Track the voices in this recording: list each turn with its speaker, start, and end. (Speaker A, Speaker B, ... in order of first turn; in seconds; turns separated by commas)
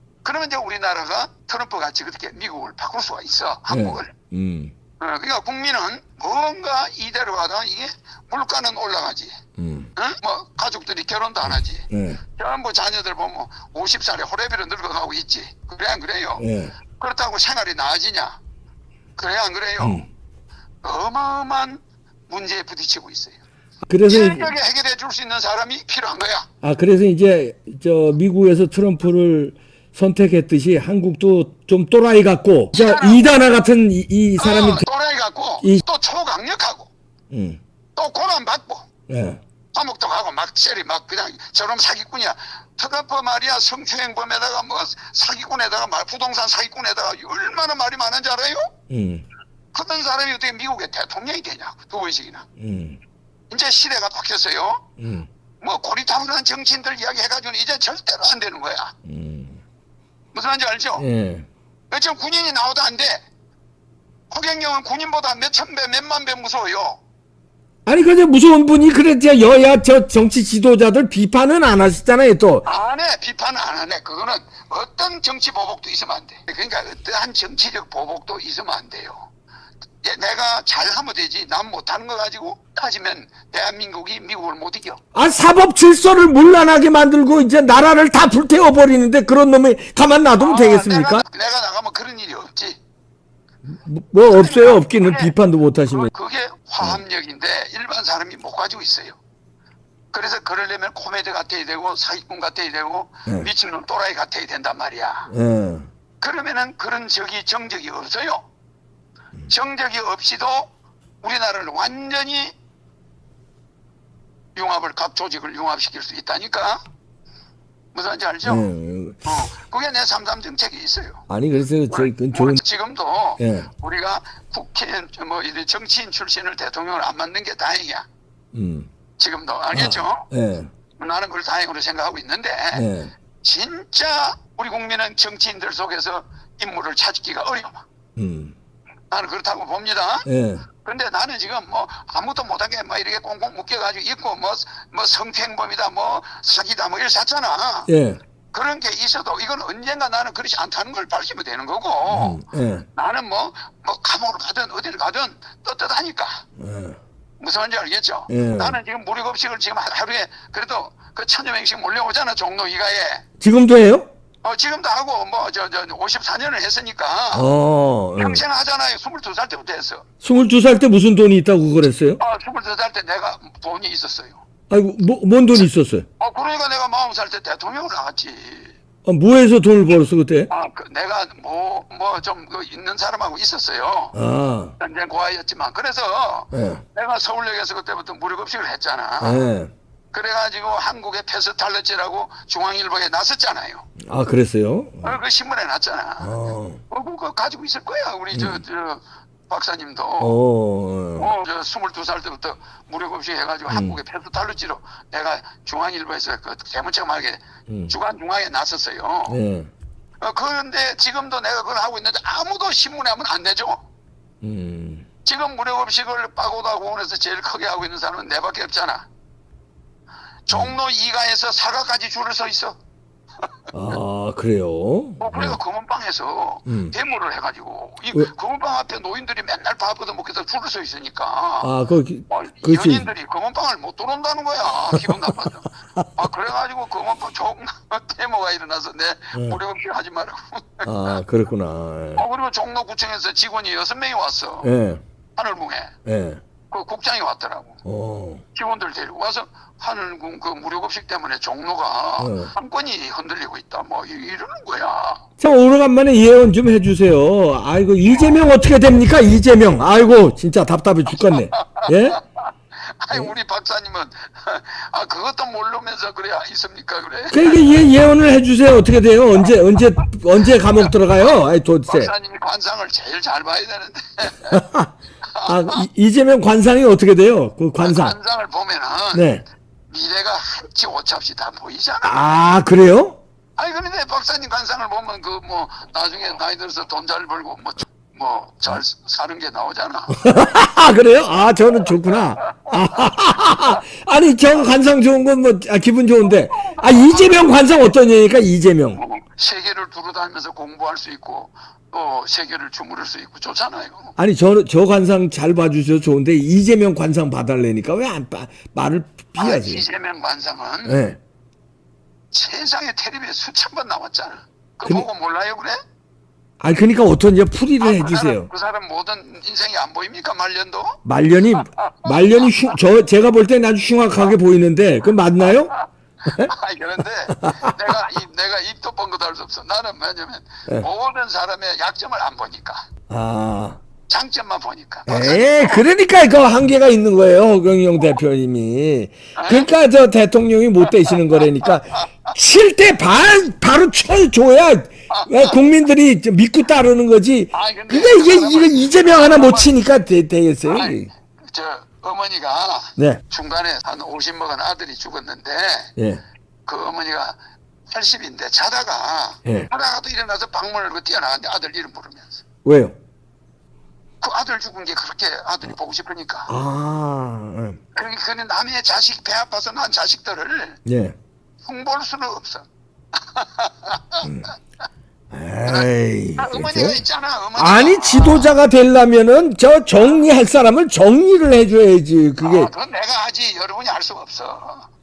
Speaker A: 0.2-4.1, Speaker B: 3.7-4.7, Speaker A: 5.0-9.3, Speaker B: 9.6-9.9, Speaker A: 9.9-18.4, Speaker B: 11.9-12.2, Speaker B: 16.4-16.7, Speaker A: 19.1-20.0, Speaker B: 19.8-20.0, Speaker A: 20.8-23.4, Speaker B: 23.9-24.5, Speaker A: 24.1-26.5, Speaker B: 26.6-34.8, Speaker A: 32.7-33.3, Speaker A: 34.4-36.9, Speaker B: 37.3-37.6, Speaker A: 38.0-38.9, Speaker B: 39.1-39.4, Speaker A: 39.7-48.7, Speaker B: 48.9-49.2, Speaker A: 49.7-52.4, Speaker B: 52.6-53.0, Speaker A: 53.5-54.8, Speaker B: 55.0-55.3, Speaker A: 55.6-58.9, Speaker B: 59.0-59.6, Speaker A: 60.3-61.0, Speaker B: 61.0-61.5, Speaker A: 61.9-63.2, Speaker A: 64.3-67.0, Speaker B: 67.8-72.6, Speaker A: 72.6-79.3, Speaker A: 80.0-85.0, Speaker B: 85.1-91.2, Speaker A: 90.4-92.8, Speaker B: 93.7-96.1, Speaker A: 94.3-95.3, Speaker A: 95.9-99.2, Speaker A: 100.1-105.3, Speaker B: 105.3-105.9, Speaker A: 106.2-108.4, Speaker A: 109.5-110.7, Speaker A: 111.2-112.5, Speaker A: 114.5-116.8, Speaker A: 117.9-118.7, Speaker B: 118.4-119.2, Speaker A: 119.2-121.2, Speaker B: 121.3-122.6, Speaker A: 121.9-128.1, Speaker B: 123.4-123.7, Speaker B: 128.5-128.9, Speaker A: 129.2-130.2, Speaker B: 129.7-130.7, Speaker A: 131.0-132.9, Speaker B: 132.7-133.1, Speaker A: 133.4-137.8, Speaker B: 138.2-138.5, Speaker A: 139.1-140.3, Speaker B: 140.2-140.7, Speaker A: 140.8-147.9, Speaker B: 147.9-148.2, Speaker A: 148.5-152.4, Speaker B: 152.1-152.8, Speaker A: 152.9-156.4, Speaker B: 156.6-157.0, Speaker A: 157.4-163.2, Speaker B: 158.3-158.8, Speaker B: 163.4-164.1, Speaker A: 164.4-167.5, Speaker B: 167.3-168.4, Speaker A: 168.2-170.0, Speaker B: 170.2-172.2, Speaker A: 172.2-174.4, Speaker B: 174.7-176.0, Speaker A: 176.2-178.8, Speaker B: 179.0-180.5, Speaker A: 180.5-184.2, Speaker B: 184.1-184.8, Speaker A: 184.8-189.5, Speaker B: 186.5-186.8, Speaker B: 189.2-189.7, Speaker A: 190.1-193.8, Speaker B: 194.0-195.2, Speaker A: 195.0-196.3, Speaker B: 196.2-196.8, Speaker A: 196.9-200.4, Speaker B: 198.3-198.6, Speaker B: 200.2-201.3, Speaker A: 201.2-209.4, Speaker B: 203.7-204.0, Speaker B: 207.7-207.9, Speaker B: 209.3-209.7, Speaker A: 210.2-213.8, Speaker B: 214.4-215.1, Speaker A: 215.2-219.1, Speaker A: 220.5-222.8, Speaker B: 223.7-225.6, Speaker A: 225.2-231.7, Speaker B: 226.7-226.9, Speaker B: 231.6-233.1, Speaker A: 232.3-241.2, Speaker B: 239.3-239.6, Speaker B: 240.8-242.2, Speaker A: 242.2-244.7, Speaker B: 244.6-245.0, Speaker A: 245.3-245.9, Speaker B: 246.1-246.4, Speaker A: 246.7-247.8, Speaker B: 247.8-248.4, Speaker A: 248.5-255.2, Speaker B: 252.2-252.5, Speaker B: 255.4-262.2, Speaker A: 261.1-267.8, Speaker B: 267.3-272.1, Speaker A: 270.8-274.6, Speaker B: 274.5-274.9, Speaker A: 275.3-275.8, Speaker B: 275.4-278.1, Speaker A: 277.8-279.3, Speaker B: 279.1-279.4, Speaker A: 279.9-282.2, Speaker B: 282.0-283.2, Speaker A: 283.6-290.2, Speaker B: 290.2-299.0, Speaker A: 292.1-293.1, Speaker A: 296.2-297.7, Speaker A: 298.9-304.1, Speaker B: 304.2-309.8, Speaker A: 309.4-311.0, Speaker B: 310.9-311.2, Speaker A: 312.3-315.8, Speaker B: 316.6-318.5, Speaker A: 317.8-321.0, Speaker B: 321.0-325.7, Speaker A: 321.5-322.7, Speaker A: 325.4-332.9, Speaker B: 326.3-326.5, Speaker B: 327.3-327.8, Speaker B: 333.1-333.8, Speaker A: 334.1-335.9, Speaker B: 335.1-351.1, Speaker A: 339.4-339.7, Speaker A: 340.8-342.3, Speaker A: 345.1-345.6, Speaker A: 347.5-349.7, Speaker A: 350.7-355.9, Speaker B: 356.0-356.2, Speaker A: 356.6-357.4, Speaker A: 357.9-362.4, Speaker B: 362.6-362.9, Speaker A: 364.2-366.5, Speaker B: 366.5-367.8, Speaker A: 367.9-370.8, Speaker B: 370.9-371.1, Speaker A: 371.6-374.4, Speaker B: 375.3-377.0, Speaker A: 375.6-378.5, Speaker B: 377.6-382.7, Speaker A: 379.9-380.2, Speaker A: 382.4-384.9